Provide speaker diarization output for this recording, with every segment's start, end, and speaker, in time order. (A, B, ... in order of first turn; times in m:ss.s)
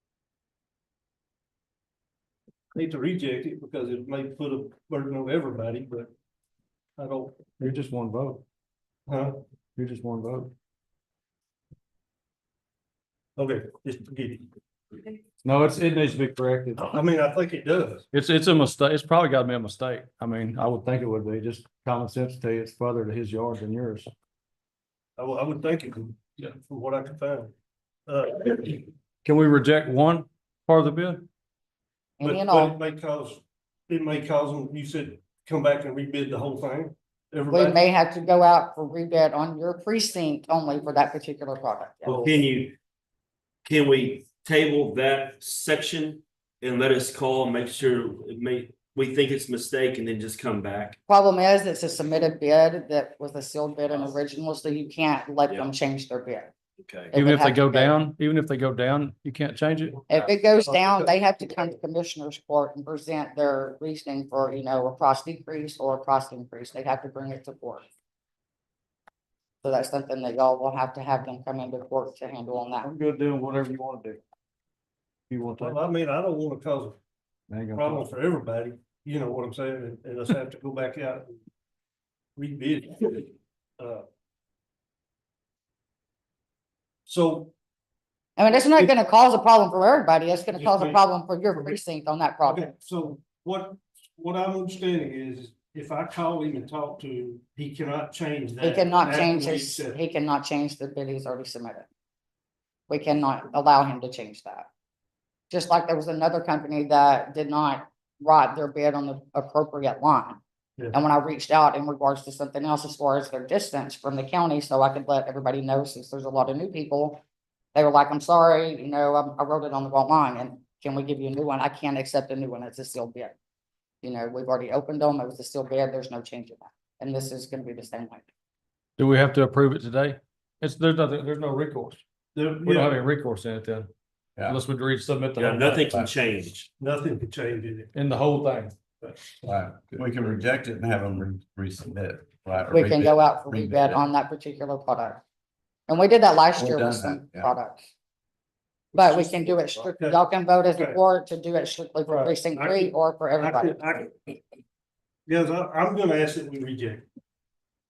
0:02.7-0:06.1 A
0:07.0-0:07.5 A
0:07.6-0:08.4 B
0:09.1-0:09.4 A
0:09.8-0:10.5 B
0:13.4-0:14.5 A
0:15.4-0:17.0 B
0:16.8-0:18.1 A
0:18.1-0:24.1 B
0:25.2-0:27.5 A
0:28.1-0:28.9 A
0:29.2-0:31.3 B
0:32.2-0:32.8 C
0:32.2-0:37.8 A
0:37.5-0:42.3 C
0:42.0-0:42.8 D
0:42.1-0:42.3 A
0:43.6-0:51.0 D
0:51.1-0:56.5 C
0:55.5-0:55.7 D
0:56.8-0:57.2 D
0:57.1-0:57.9 C
0:57.2-1:00.0 B
1:00.1-1:07.9 C
1:00.6-1:01.1 A
1:09.6-1:12.9 C
1:12.8-1:14.2 B
1:15.3-1:15.8 B
1:15.6-1:17.0 A
1:17.5-1:18.1 B
1:17.7-1:21.3 A
1:22.4-1:24.0 A
1:27.1-1:27.5 A
1:28.4-1:32.6 C
1:28.5-1:28.9 A
1:30.5-1:31.0 A
1:32.4-1:40.0 A
1:38.6-1:41.9 C
1:42.9-1:44.7 C
1:45.5-1:50.4 C
1:50.9-1:57.2 C
1:57.8-2:03.4 C
2:04.0-2:08.2 C
2:09.0-2:12.0 B
2:12.4-2:13.0 A
2:12.6-2:13.9 B
2:14.4-2:15.9 B
2:15.4-2:16.7 D
2:16.8-2:17.9 A
2:17.9-2:18.8 B
2:19.0-2:19.4 A
2:19.5-2:24.0 E
2:22.7-2:25.2 C
2:25.9-2:27.9 C
2:26.6-2:27.5 E
2:28.9-2:33.8 C
2:29.0-2:30.2 A
2:30.7-2:31.0 A
2:32.1-2:34.3 A
2:35.3-2:37.0 A